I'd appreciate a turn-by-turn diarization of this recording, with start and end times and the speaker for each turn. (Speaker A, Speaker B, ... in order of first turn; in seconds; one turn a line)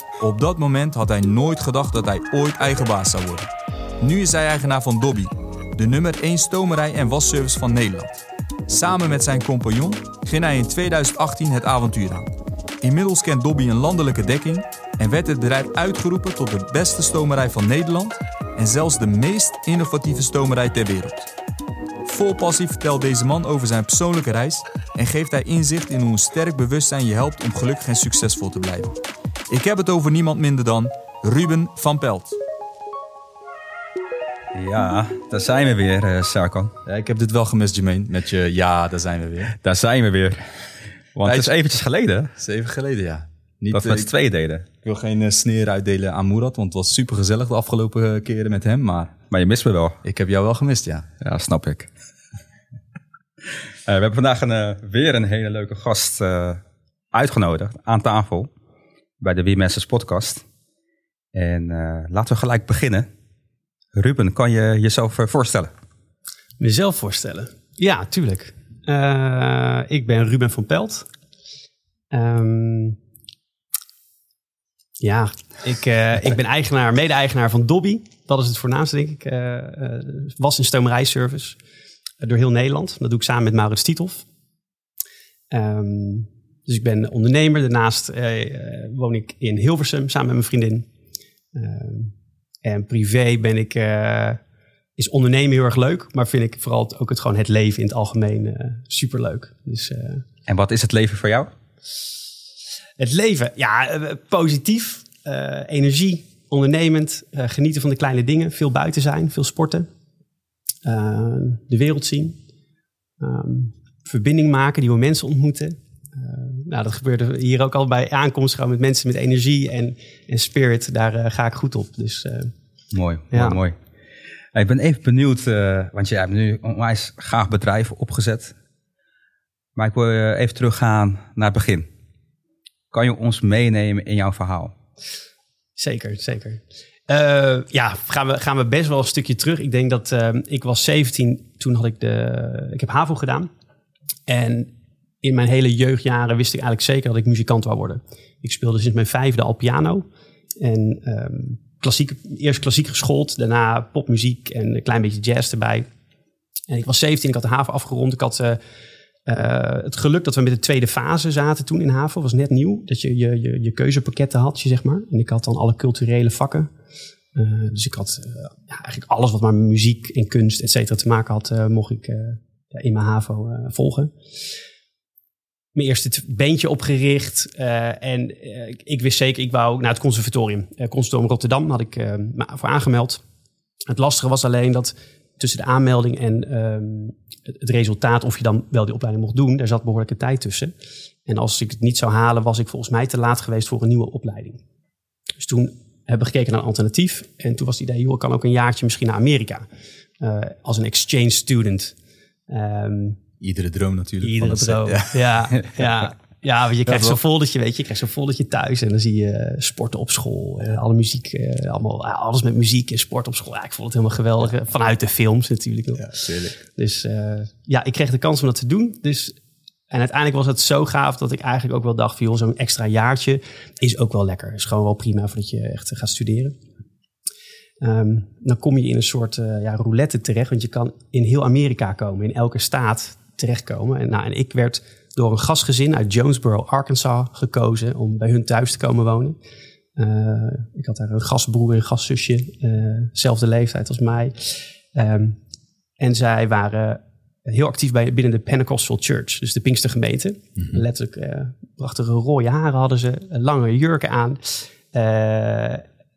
Speaker A: 0.2-8.2
Speaker A: 8.7-21.3
Speaker A: 22.1-28.9
Speaker A: 29.5-32.4
Speaker B: 34.5-36.7
Speaker A: 36.9-39.6
Speaker B: 39.6-40.4
Speaker B: 41.1-42.3
Speaker A: 41.2-41.5
Speaker A: 42.4-44.1
Speaker B: 43.7-44.7
Speaker A: 44.8-49.1
Speaker B: 49.3-50.0
Speaker A: 50.0-51.1
Speaker B: 51.2-51.9
Speaker B: 53.9-56.6
Speaker B: 57.1-58.5
Speaker B: 59.2-60.4
Speaker B: 61.3-63.1
Speaker B: 63.9-65.7
Speaker C: 66.6-71.1
Speaker C: 72.1-73.0
Speaker C: 75.0-81.6
Speaker C: 82.2-84.2
Speaker C: 85.5-90.9
Speaker C: 91.5-94.4
Speaker C: 95.0-100.2
Speaker B: 100.5-101.5
Speaker C: 103.0-109.9
Speaker C: 110.8-112.4
Speaker C: 113.2-122.5
Speaker B: 122.9-123.8
Speaker C: 123.3-123.6
Speaker B: 124.5-128.5
Speaker B: 129.8-131.9
Speaker B: 132.9-134.7
Speaker C: 135.8-143.5
Speaker C: 144.3-150.1
Speaker C: 150.6-155.9
Speaker C: 156.7-158.6
Speaker C: 159.3-166.7
Speaker C: 167.3-174.1
Speaker C: 175.8-183.2
Speaker C: 183.9-190.7
Speaker C: 191.3-194.6
Speaker C: 195.4-199.7
Speaker C: 200.2-202.0
Speaker C: 202.5-203.2
Speaker A: 203.4-205.5
Speaker C: 204.2-219.4
Speaker A: 206.9-207.2
Speaker A: 216.0-216.6
Speaker C: 219.9-226.6
Speaker C: 227.8-239.4
Speaker C: 240.0-245.4
Speaker C: 246.0-255.8